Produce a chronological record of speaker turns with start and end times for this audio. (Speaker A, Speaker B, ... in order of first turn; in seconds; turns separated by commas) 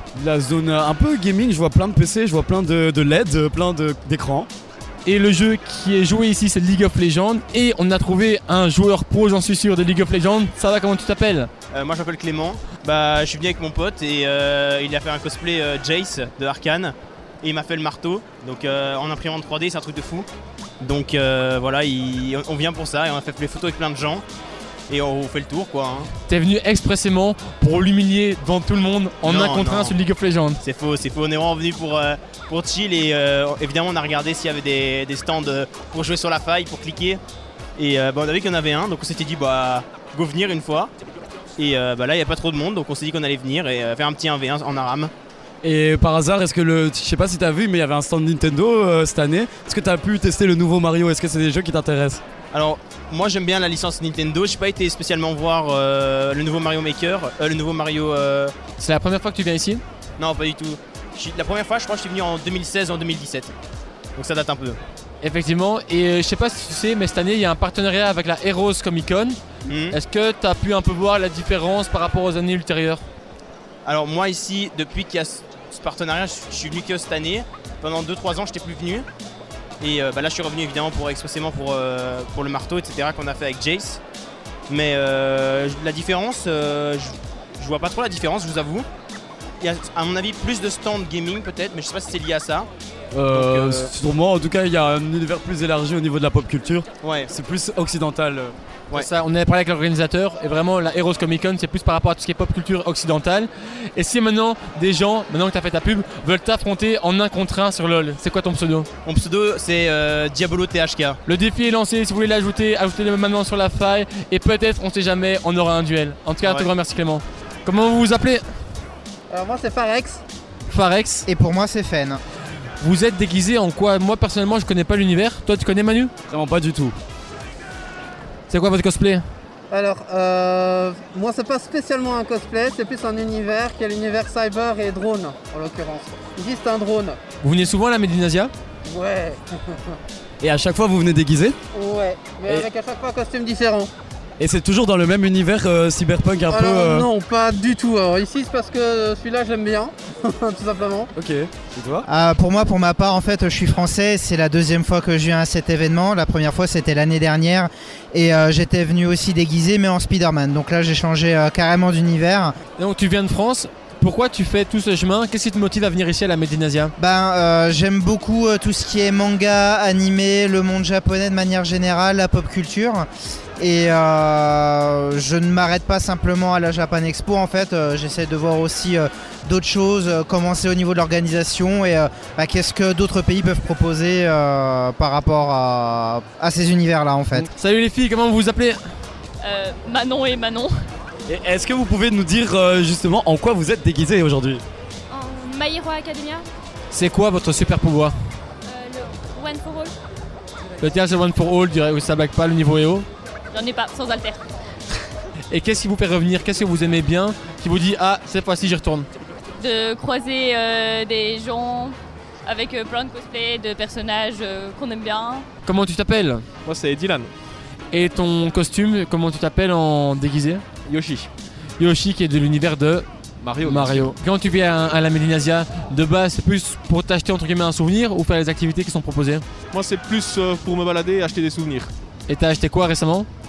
Speaker A: 0.1-4.5, Speaker B: 5.0-11.5, Speaker C: 11.7-20.3, Speaker C: 20.8-24.2, Speaker C: 24.9-26.1, Speaker B: 26.3-30.6, Speaker C: 29.2-30.0, Speaker C: 30.6-37.2, Speaker C: 37.8-40.9, Speaker C: 41.6-45.1, Speaker A: 45.6-52.2, Speaker C: 52.5-58.5, Speaker B: 58.8-59.8, Speaker C: 60.2-63.5, Speaker C: 64.2-64.8, Speaker B: 65.2-69.4, Speaker C: 69.7-70.0, Speaker B: 69.9-73.0, Speaker C: 73.8-79.1, Speaker C: 79.8-84.0, Speaker C: 84.7-88.9, Speaker C: 89.6-92.7, Speaker A: 93.1-98.5, Speaker C: 93.3-93.9, Speaker C: 97.0-97.3, Speaker B: 98.9-108.9, Speaker C: 109.0-111.2, Speaker B: 111.3-118.5, Speaker C: 116.4-116.7, Speaker D: 119.3-120.2, Speaker B: 120.7-121.3, Speaker E: 121.3-122.2, Speaker B: 122.8-126.1, Speaker A: 126.3-127.0, Speaker B: 128.5-129.2, Speaker D: 129.7-137.2, Speaker B: 137.4-138.5, Speaker D: 138.8-140.0, Speaker A: 140.4-141.6, Speaker D: 141.7-143.9, Speaker A: 144.4-147.1, Speaker D: 146.5-151.1, Speaker A: 151.2-152.1, Speaker E: 152.1-162.5, Speaker B: 162.8-166.9, Speaker E: 167.0-173.1, Speaker E: 173.6-187.5, Speaker B: 187.3-188.8, Speaker F: 189.4-190.8, Speaker A: 191.3-194.6, Speaker F: 195.1-196.5, Speaker B: 196.9-198.1, Speaker F: 198.7-199.9, Speaker B: 200.8-203.1, Speaker F: 203.5-204.4, Speaker B: 205.5-209.1, Speaker F: 209.6-215.5, Speaker B: 215.7-216.4, Speaker B: 217.9-220.7, Speaker G: 220.9-221.2, Speaker B: 221.8-223.1, Speaker B: 223.6-229.4, Speaker G: 229.7-231.9, Speaker B: 232.3-233.3